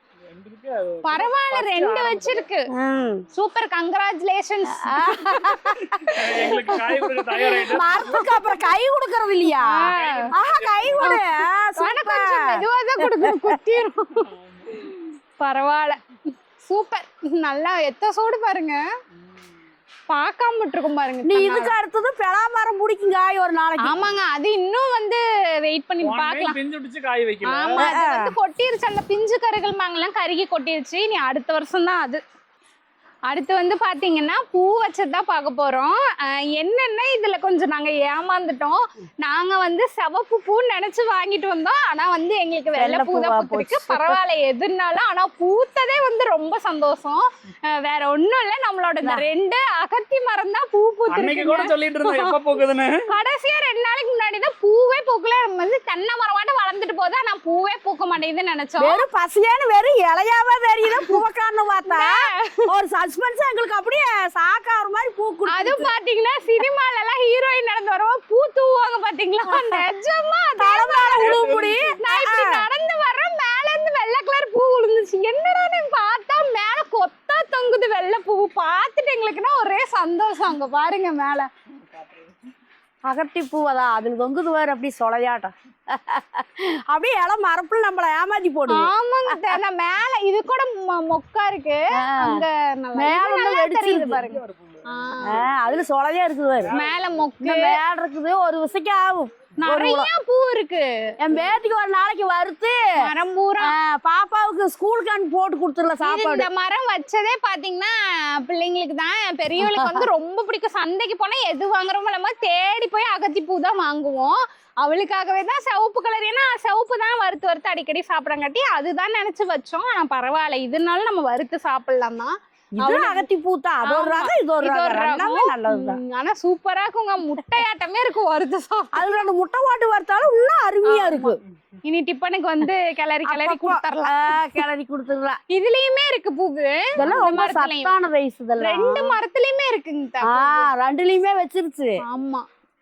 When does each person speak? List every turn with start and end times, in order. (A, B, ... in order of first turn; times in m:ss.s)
0:00.3-0:02.4 A
0:01.0-0:02.7 B
0:02.7-0:03.2 C
0:03.3-0:08.6 B
0:04.7-0:05.8 C
0:06.1-0:08.3 A
0:07.6-0:13.6 C
0:09.6-0:10.3 B
0:09.9-0:11.2 A
0:11.0-0:11.2 B
0:11.8-0:16.0 B
0:14.2-0:14.8 A
0:16.6-0:18.8 B
0:20.1-0:21.7 B
0:21.2-0:24.0 C
0:23.8-0:26.6 B
0:26.0-0:27.8 A
0:27.4-0:32.2 B
0:27.8-0:28.3 C
0:33.3-0:52.4 B
0:42.8-0:44.2 C
0:51.1-0:53.1 A
0:53.1-0:59.0 B
0:58.8-1:05.9 C
1:00.8-1:01.2 B
1:01.9-1:02.6 B
1:05.5-1:11.4 B
1:09.5-1:09.8 C
1:10.6-1:12.6 C
1:11.2-1:12.0 A
1:12.0-1:21.5 B
1:21.9-1:22.2 A
1:23.0-1:29.6 C
1:28.7-1:35.4 B
1:32.0-1:32.4 C
1:33.0-1:34.2 C
1:34.2-1:34.8 A
1:35.2-1:36.7 C
1:36.6-1:37.0 A
1:36.7-1:37.8 B
1:37.4-1:40.1 C
1:39.6-1:41.1 B
1:41.2-1:42.8 C
1:43.0-1:43.7 B
1:43.6-1:46.5 C
1:46.0-2:03.2 B
1:49.6-1:50.1 C
2:02.8-2:06.0 C
2:03.8-2:09.2 B
2:08.9-2:11.4 C
2:10.8-2:14.6 B
2:13.2-2:15.4 C
2:15.5-2:17.9 B
2:17.0-2:19.2 C
2:18.6-2:20.7 B
2:20.2-2:22.0 C
2:22.0-2:22.4 B